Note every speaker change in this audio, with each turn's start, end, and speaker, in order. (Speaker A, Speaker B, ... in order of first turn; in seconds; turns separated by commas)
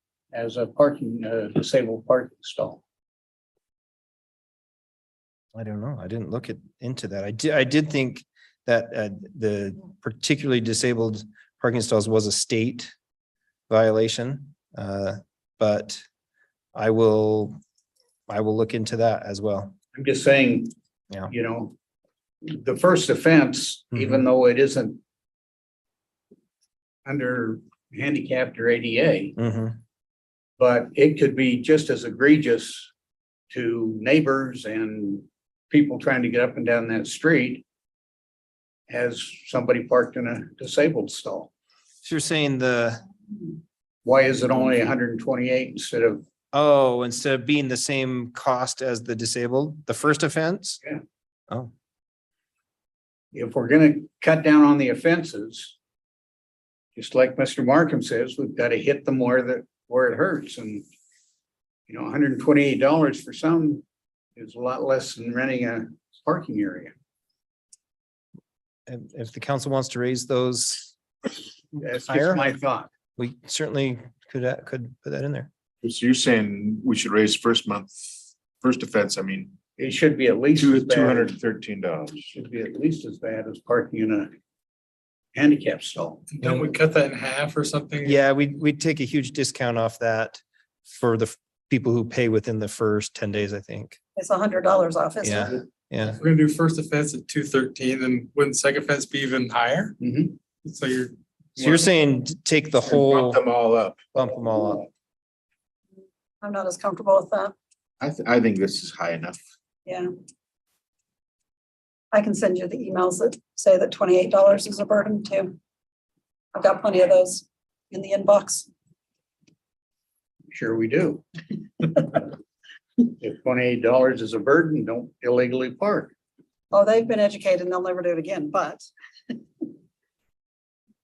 Speaker A: 0.3-2.8, Speaker B: 5.5-12.9, Speaker B: 13.7-16.0, Speaker B: 16.7-17.6, Speaker B: 18.3-19.7, Speaker A: 19.9-20.7, Speaker A: 21.3-21.7, Speaker A: 22.4-25.0, Speaker B: 23.9-24.2, Speaker A: 27.0-29.3, Speaker B: 29.4-29.8, Speaker A: 30.6-32.9, Speaker A: 33.5-37.6, Speaker A: 38.9-41.5, Speaker B: 42.0-43.0, Speaker A: 44.0-46.2, Speaker B: 46.5-50.8, Speaker A: 53.3-55.8, Speaker A: 57.0-60.9, Speaker A: 61.9-63.8, Speaker A: 64.3-66.9, Speaker B: 68.9-70.9, Speaker A: 71.8-72.9, Speaker B: 71.8-72.4, Speaker B: 73.2-75.5, Speaker C: 75.8-79.5, Speaker A: 79.8-81.4, Speaker C: 80.6-82.2, Speaker A: 82.2-84.3, Speaker A: 85.3-86.2, Speaker D: 86.3-88.2, Speaker B: 88.0-94.0, Speaker E: 94.2-95.6, Speaker B: 95.2-96.2, Speaker D: 96.2-100.0, Speaker A: 100.0-100.3, Speaker D: 100.6-101.1, Speaker B: 101.6-103.4, Speaker C: 102.9-104.1, Speaker B: 104.1-104.9, Speaker E: 106.4-107.5, Speaker C: 108.0-109.4, Speaker E: 109.8-110.1, Speaker E: 112.1-115.6, Speaker E: 116.5-118.7, Speaker A: 120.5-121.2, Speaker A: 121.8-122.2, Speaker A: 123.0-126.1, Speaker E: 126.7-128.8